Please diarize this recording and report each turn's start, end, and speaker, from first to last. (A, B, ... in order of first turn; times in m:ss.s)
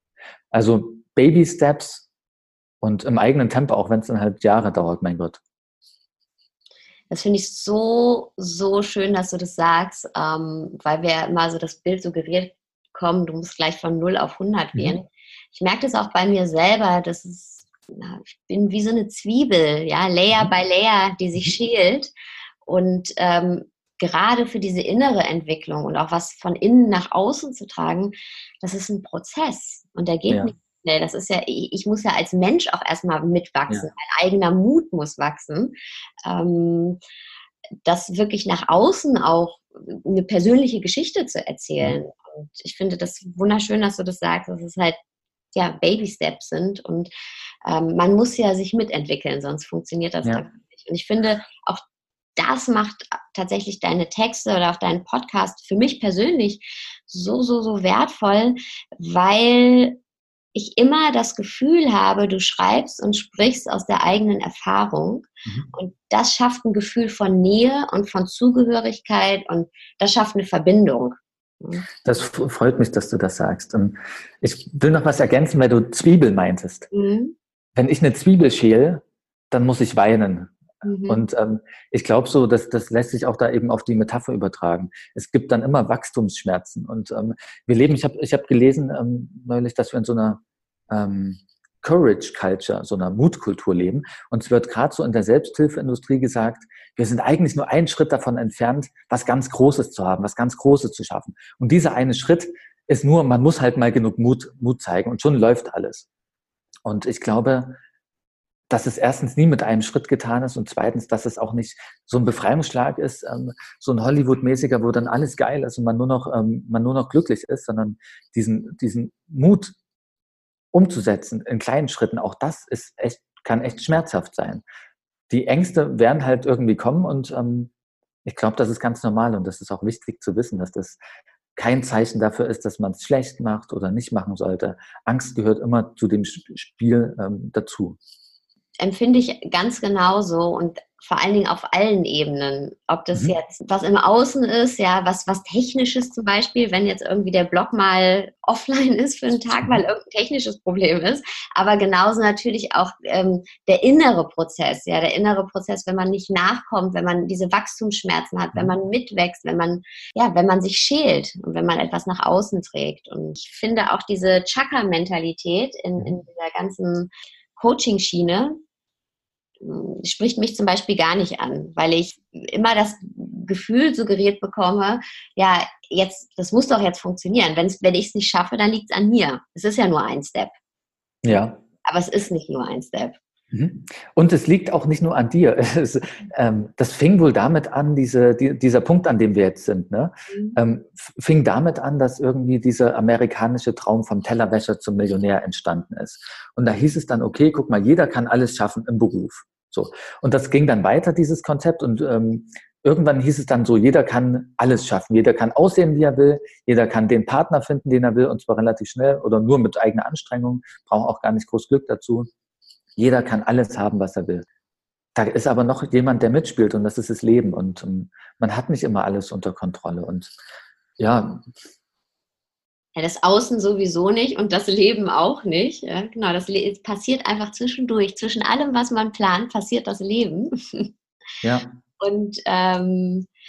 0:00.5-0:02.0 A
0:02.8-0:05.4 A
0:07.1-0:22.1 B
0:14.7-0:15.0 A
0:22.6-0:37.0 B
0:37.8-0:45.0 B
0:45.5-0:47.1 B
0:47.6-0:51.8 B
0:52.4-1:00.0 B
1:00.5-1:11.8 B
1:12.0-1:16.9 A
1:16.9-1:17.3 B
1:17.8-1:20.5 A
1:20.8-1:21.2 B
1:21.1-1:46.0 A
1:46.8-1:47.8 A
1:48.7-1:59.7 A
2:00.7-2:04.6 A
2:05.3-2:07.7 A
2:08.2-2:11.0 A
2:11.6-2:18.0 A
2:18.8-2:48.6 B
2:49.6-3:00.5 B
3:01.2-3:01.6 A
3:01.3-3:03.2 B
3:03.5-3:32.3 A
3:10.3-3:10.6 B
3:33.0-3:34.4 A
3:35.1-3:40.3 A
3:41.0-3:41.5 A
3:43.0-3:50.9 B
3:51.4-3:51.7 A
3:52.0-3:53.3 B